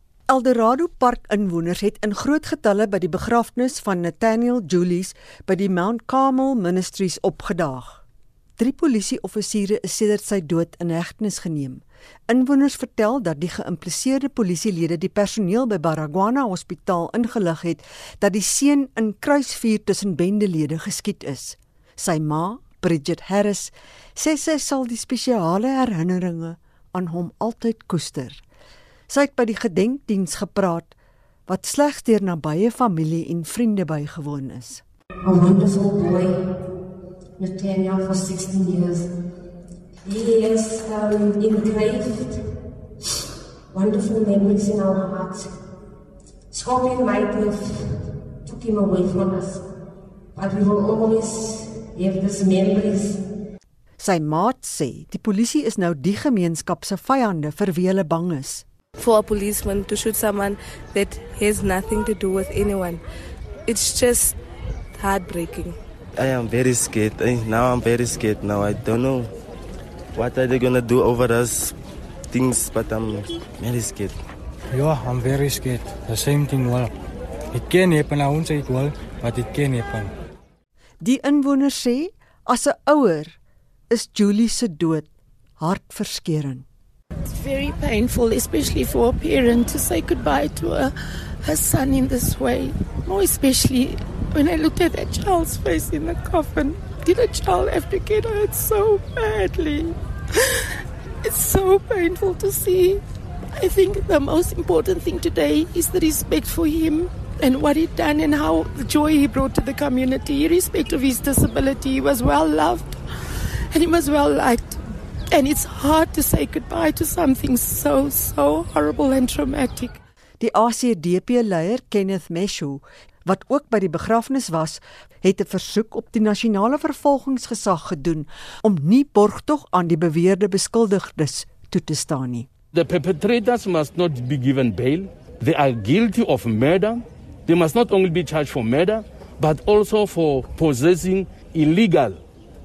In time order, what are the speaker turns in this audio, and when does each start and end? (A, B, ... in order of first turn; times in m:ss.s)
0:00.3-0:08.0 A
0:08.6-0:28.4 A
0:29.1-0:30.9 A
0:31.5-0:34.8 A
0:35.2-0:36.5 B
0:37.4-0:39.1 B
0:40.0-0:42.5 B
0:43.7-0:45.5 B
0:46.5-0:49.6 B
0:50.3-0:53.2 B
0:54.0-0:58.6 A
0:59.0-1:03.0 C
1:03.6-1:04.4 C
1:04.9-1:05.8 C
1:06.2-1:09.3 D
1:10.2-1:11.8 D
1:12.3-1:14.2 D
1:14.7-1:16.9 E
1:17.5-1:20.1 E
1:21.0-1:23.4 A
1:23.9-1:25.1 A
1:25.6-1:26.6 A
1:27.2-1:40.6 F
1:41.2-1:53.0 F
1:53.7-2:00.0 F
2:00.4-2:12.5 A
2:12.7-2:22.2 G